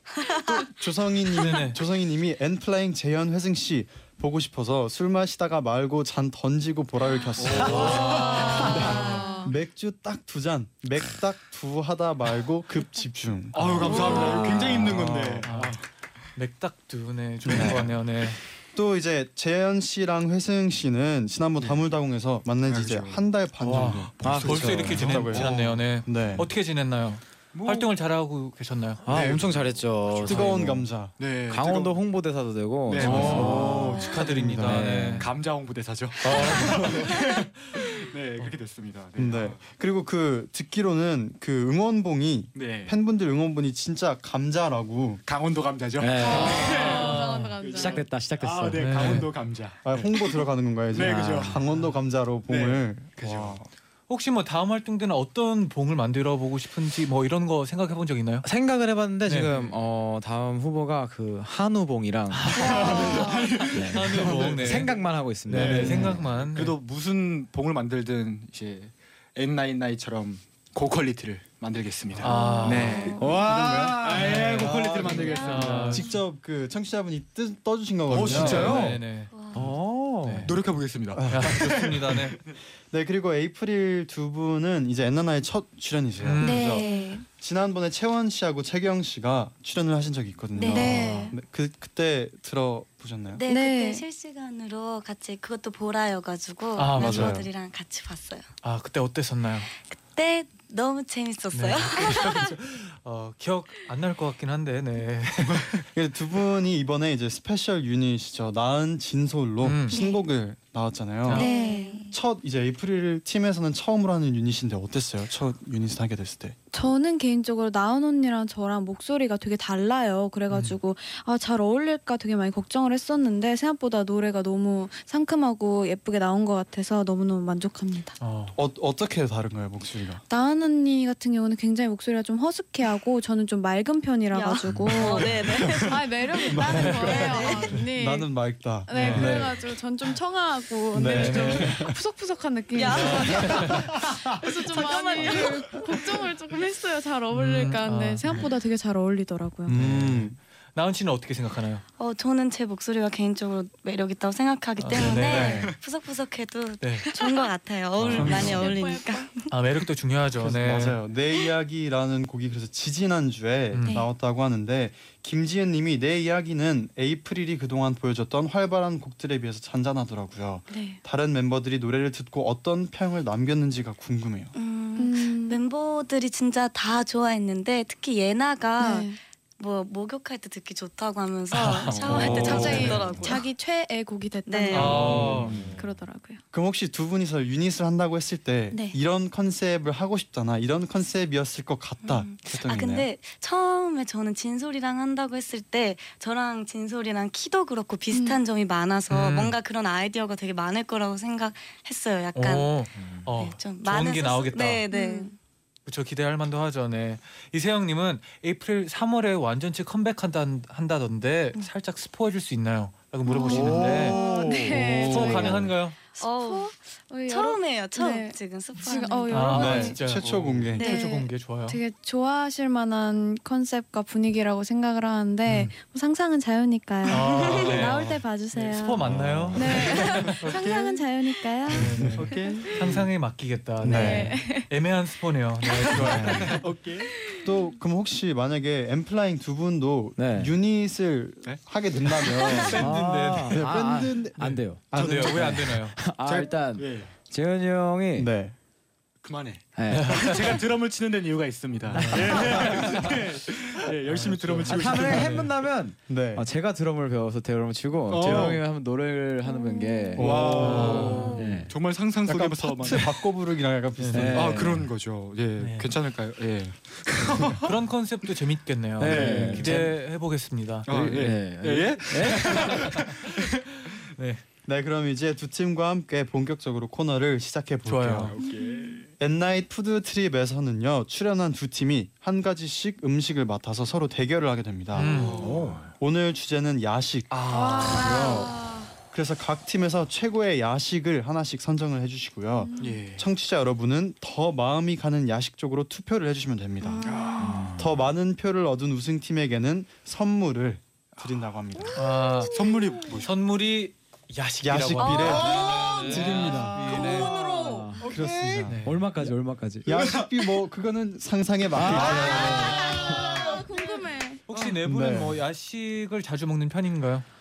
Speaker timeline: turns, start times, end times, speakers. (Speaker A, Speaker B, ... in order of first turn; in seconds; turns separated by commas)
Speaker A: 0.5-15.5, Speaker B: 1.4-1.8, Speaker C: 7.2-9.2, Speaker D: 7.4-8.6, Speaker E: 7.8-9.6, Speaker D: 13.6-15.9, Speaker F: 14.4-15.0, Speaker B: 15.4-15.8, Speaker B: 16.4-18.4, Speaker A: 17.5-18.0, Speaker D: 17.5-17.8, Speaker A: 18.7-26.5, Speaker D: 22.7-26.5, Speaker B: 23.6-29.2, Speaker F: 24.2-25.1, Speaker D: 27.5-27.9, Speaker F: 29.1-30.9, Speaker D: 29.1-30.6, Speaker A: 30.2-31.2, Speaker D: 31.2-32.1, Speaker F: 31.5-35.3, Speaker D: 32.9-34.1, Speaker B: 33.0-35.3, Speaker A: 33.0-34.9, Speaker D: 35.1-39.6, Speaker A: 36.3-37.0, Speaker B: 36.3-37.8, Speaker A: 39.2-45.2, Speaker D: 42.5-43.0, Speaker D: 45.3-50.1, Speaker F: 46.0-47.1, Speaker E: 46.2-48.0, Speaker B: 46.9-47.6, Speaker F: 47.7-49.3, Speaker B: 48.8-49.3, Speaker A: 49.8-53.7, Speaker D: 50.9-51.6, Speaker F: 50.9-51.6, Speaker D: 52.5-53.6, Speaker B: 54.1-58.5, Speaker F: 58.4-66.3, Speaker B: 59.2-59.8, Speaker B: 62.3-62.9, Speaker D: 62.5-76.0, Speaker E: 62.6-63.4, Speaker B: 63.8-66.8, Speaker B: 72.2-73.2, Speaker C: 72.2-73.2, Speaker E: 72.3-73.1, Speaker F: 73.2-74.1, Speaker A: 73.3-79.0, Speaker B: 74.2-74.8, Speaker C: 75.0-75.9, Speaker B: 75.3-76.2, Speaker D: 78.1-79.0, Speaker F: 78.2-79.0, Speaker B: 78.2-79.6, Speaker C: 79.3-79.7, Speaker F: 79.5-80.5, Speaker B: 80.2-80.5, Speaker D: 80.4-82.3, Speaker A: 81.1-81.8, Speaker B: 81.2-82.4, Speaker A: 82.9-86.8, Speaker B: 86.2-86.8, Speaker E: 86.4-87.2, Speaker C: 86.4-87.2, Speaker A: 87.4-93.4, Speaker C: 90.6-91.3, Speaker E: 90.6-91.3, Speaker C: 93.3-98.5, Speaker E: 93.5-94.0, Speaker B: 96.8-97.4, Speaker A: 97.0-97.5, Speaker B: 98.6-99.7, Speaker C: 99.9-102.5, Speaker B: 101.5-105.8, Speaker A: 105.9-111.5, Speaker B: 109.6-110.0, Speaker C: 111.3-112.1, Speaker E: 111.3-112.1, Speaker A: 112.1-116.6, Speaker E: 116.7-128.2, Speaker B: 120.5-120.8, Speaker B: 128.2-128.6, Speaker A: 128.6-130.2, Speaker E: 130.3-138.3, Speaker C: 134.3-137.8, Speaker A: 134.7-135.9, Speaker A: 136.5-139.6, Speaker B: 136.6-137.7, Speaker E: 138.9-149.8, Speaker B: 138.9-139.6, Speaker A: 140.9-142.0, Speaker B: 141.1-141.9, Speaker C: 142.8-146.2, Speaker B: 142.9-143.9, Speaker B: 147.3-148.5, Speaker A: 149.7-150.4, Speaker B: 149.7-151.8, Speaker C: 152.0-159.5, Speaker B: 154.8-155.7, Speaker A: 155.2-155.7, Speaker B: 156.8-157.1, Speaker B: 158.0-158.7, Speaker A: 158.0-158.7, Speaker E: 158.3-159.3, Speaker B: 159.5-161.0, Speaker A: 160.4-174.5, Speaker B: 163.7-164.0, Speaker C: 170.7-171.0, Speaker C: 174.6-183.4, Speaker E: 175.0-175.6, Speaker E: 178.8-179.2, Speaker B: 181.5-183.3, Speaker A: 182.0-183.2, Speaker E: 182.2-186.4, Speaker C: 184.5-185.2, Speaker B: 184.7-185.6, Speaker A: 184.9-185.7, Speaker D: 185.2-185.8, Speaker A: 186.5-193.1, Speaker C: 192.0-202.7, Speaker E: 198.1-198.4, Speaker B: 199.1-199.5, Speaker B: 202.3-204.8, Speaker F: 203.0-203.3, Speaker C: 203.3-205.3, Speaker E: 204.9-205.3, Speaker B: 205.9-214.2, Speaker E: 213.2-220.0, Speaker A: 213.5-215.7, Speaker B: 214.8-216.0, Speaker C: 216.2-216.7, Speaker C: 217.3-219.9, Speaker B: 219.3-221.8, Speaker A: 219.5-220.9, Speaker C: 220.8-221.1, Speaker E: 220.8-232.6, Speaker B: 227.1-230.7, Speaker D: 229.0-231.0, Speaker A: 229.1-229.6, Speaker B: 231.7-236.7, Speaker A: 231.8-232.3, Speaker D: 231.9-233.1, Speaker A: 233.8-234.4, Speaker E: 233.9-234.7, Speaker D: 235.9-237.3, Speaker A: 236.0-236.6, Speaker A: 237.3-245.4, Speaker F: 240.2-240.5, Speaker D: 242.2-242.6, Speaker F: 242.6-248.3, Speaker B: 242.6-243.6, Speaker B: 244.9-246.0, Speaker D: 245.0-245.4, Speaker D: 246.2-247.2, Speaker A: 248.2-248.6, Speaker D: 249.2-255.5, Speaker F: 249.8-250.6, Speaker B: 249.9-250.6, Speaker B: 251.9-252.9, Speaker F: 251.9-253.1, Speaker B: 254.0-255.5, Speaker F: 254.7-261.8, Speaker A: 256.1-256.5, Speaker D: 258.1-258.7, Speaker E: 259.5-260.2, Speaker A: 260.2-261.3, Speaker D: 260.2-263.2, Speaker B: 260.6-261.5, Speaker E: 261.1-261.4, Speaker A: 262.2-264.7, Speaker B: 264.0-264.4, Speaker F: 264.1-264.9, Speaker D: 264.3-267.8, Speaker B: 265.6-265.9, Speaker B: 267.5-270.9, Speaker F: 269.0-269.9, Speaker D: 269.0-269.9, Speaker D: 270.9-273.3, Speaker F: 270.9-272.9, Speaker B: 272.5-274.4, Speaker A: 274.6-278.3, Speaker B: 277.9-278.3, Speaker D: 278.2-279.1, Speaker E: 278.4-279.0, Speaker A: 279.2-285.4, Speaker B: 284.9-285.8, Speaker D: 285.0-285.9, Speaker E: 285.1-285.4, Speaker A: 285.9-288.6, Speaker B: 287.3-288.4, Speaker E: 287.5-288.9, Speaker A: 289.1-297.1, Speaker E: 292.6-293.0, Speaker D: 292.8-293.3, Speaker C: 296.9-297.7, Speaker E: 297.0-297.6, Speaker D: 297.0-297.9, Speaker F: 297.4-297.7, Speaker A: 297.8-302.1, Speaker B: 301.9-302.6, Speaker D: 302.4-303.4, Speaker B: 303.2-307.4, Speaker A: 304.6-306.8, Speaker C: 305.0-305.9, Speaker D: 305.2-307.4, Speaker E: 305.3-306.1, Speaker E: 306.8-308.0, Speaker F: 306.9-310.0, Speaker D: 308.0-308.8, Speaker A: 308.0-308.9, Speaker B: 308.6-309.1, Speaker A: 309.8-312.9, Speaker D: 309.9-310.5, Speaker F: 311.7-313.2, Speaker D: 311.8-314.0, Speaker E: 312.0-314.4, Speaker B: 314.5-317.3, Speaker D: 314.5-314.8, Speaker A: 314.8-315.4